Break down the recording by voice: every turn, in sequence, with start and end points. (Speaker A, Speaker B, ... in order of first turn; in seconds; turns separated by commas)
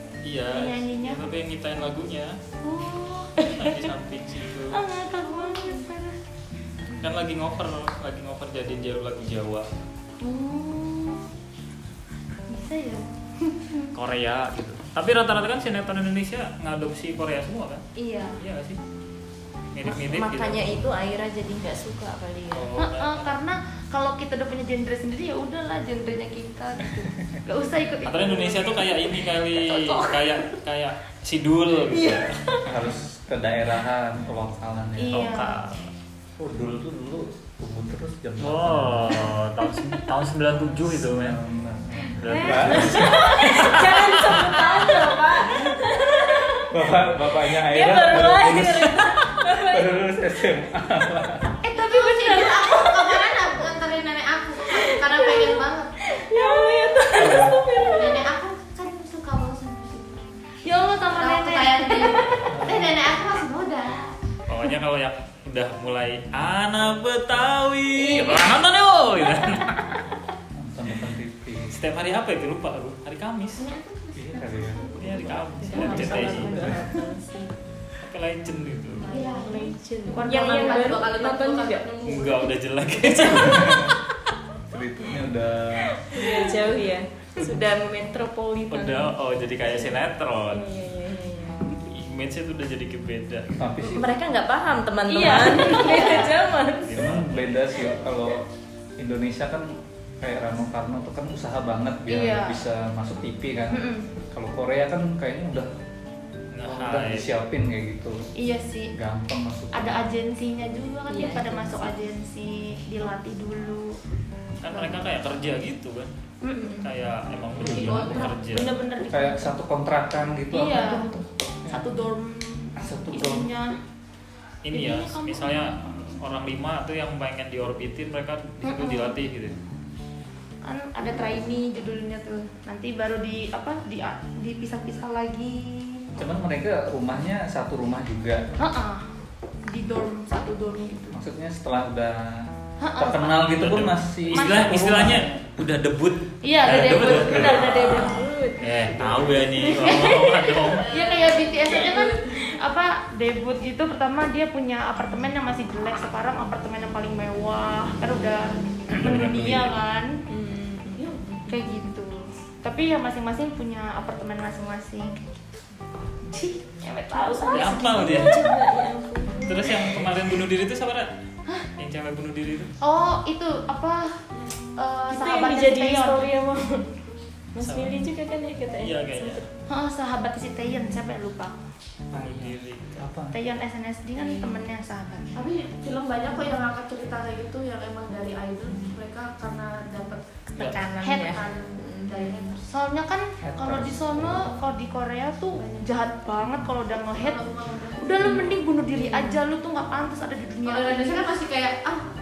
Speaker A: 0.2-2.4, Speaker B: 0.5-1.2, Speaker B: 2.6-3.8, Speaker A: 3.6-4.8, Speaker B: 4.7-6.2, Speaker C: 5.2-5.8, Speaker A: 7.0-9.7, Speaker B: 10.2-11.2, Speaker B: 12.5-13.9, Speaker A: 13.9-17.8, Speaker B: 18.0-18.4, Speaker A: 18.4-18.8, Speaker A: 19.7-20.7, Speaker C: 19.8-22.7, Speaker A: 22.5-23.4, Speaker B: 22.8-30.4, Speaker A: 28.1-32.3, Speaker C: 31.9-32.6, Speaker D: 32.7-35.2, Speaker B: 35.0-35.6, Speaker A: 35.1-35.9, Speaker D: 36.4-39.3, Speaker A: 38.4-41.4, Speaker D: 40.9-43.3, Speaker A: 42.2-44.9, Speaker B: 42.2-43.5, Speaker C: 43.0-46.7, Speaker D: 46.7-51.5, Speaker C: 47.5-49.9, Speaker B: 51.6-53.3, Speaker E: 51.7-55.9, Speaker C: 54.7-58.3, Speaker D: 57.2-57.6, Speaker E: 57.9-60.4, Speaker B: 60.6-62.3, Speaker E: 61.1-64.2, Speaker D: 62.5-62.9, Speaker A: 64.5-70.0, Speaker C: 68.0-68.4, Speaker D: 70.5-71.8, Speaker A: 71.7-73.7, Speaker E: 73.6-76.5, Speaker D: 74.1-74.8, Speaker A: 75.0-76.8, Speaker C: 75.5-77.5, Speaker D: 76.5-76.9, Speaker A: 78.0-79.1, Speaker B: 79.1-81.1, Speaker E: 79.1-82.5, Speaker C: 79.1-81.9, Speaker A: 82.0-83.7, Speaker C: 83.0-83.9, Speaker D: 83.3-83.9, Speaker D: 84.7-86.0, Speaker C: 86.1-91.8, Speaker A: 88.7-90.7, Speaker A: 91.9-93.5, Speaker D: 93.6-94.2, Speaker C: 93.8-96.9, Speaker B: 95.1-96.4, Speaker A: 96.8-97.7, Speaker D: 96.9-98.4, Speaker D: 99.0-105.7, Speaker B: 102.1-102.6, Speaker B: 103.7-104.1, Speaker A: 106.5-107.3, Speaker D: 106.6-108.2, Speaker B: 108.4-108.9, Speaker D: 108.9-110.1, Speaker B: 109.7-114.0, Speaker C: 111.1-111.7, Speaker A: 114.6-116.1, Speaker B: 114.7-115.1, Speaker B: 116.4-116.7, Speaker C: 116.5-116.9, Speaker A: 116.8-118.8, Speaker D: 117.6-118.3, Speaker E: 117.6-118.4, Speaker B: 118.5-119.5, Speaker D: 119.1-121.8, Speaker B: 120.5-121.1, Speaker B: 121.7-123.8, Speaker D: 122.8-123.6, Speaker A: 124.7-129.6, Speaker B: 124.7-126.2, Speaker B: 128.6-129.2, Speaker B: 130.7-136.2, Speaker D: 136.2-138.5, Speaker B: 138.6-139.1, Speaker B: 139.7-141.2, Speaker D: 141.1-145.4, Speaker B: 142.8-143.5, Speaker A: 143.4-150.8, Speaker B: 144.3-145.1, Speaker B: 146.4-148.3, Speaker D: 146.9-147.7, Speaker C: 147.1-150.4, Speaker B: 149.7-160.1, Speaker E: 150.8-152.5, Speaker A: 158.9-159.8, Speaker C: 160.3-161.6, Speaker E: 160.9-161.2, Speaker B: 161.5-165.3, Speaker B: 166.3-168.3, Speaker C: 167.1-170.2, Speaker A: 167.5-168.4, Speaker A: 169.4-171.1, Speaker A: 171.8-172.7, Speaker B: 172.8-174.2, Speaker B: 174.8-176.3, Speaker C: 175.1-177.0, Speaker C: 177.5-179.5, Speaker A: 177.6-178.1, Speaker A: 178.8-179.4, Speaker B: 179.7-181.6, Speaker D: 182.1-183.4, Speaker A: 182.2-183.1, Speaker B: 183.3-185.4, Speaker C: 184.2-184.6, Speaker E: 185.3-190.7, Speaker B: 190.5-191.4, Speaker C: 190.7-192.6, Speaker B: 192.1-197.4, Speaker E: 192.2-192.5, Speaker D: 193.4-194.6, Speaker D: 196.4-196.7, Speaker E: 197.0-198.5, Speaker B: 198.0-201.3, Speaker C: 198.9-199.4, Speaker E: 200.7-202.1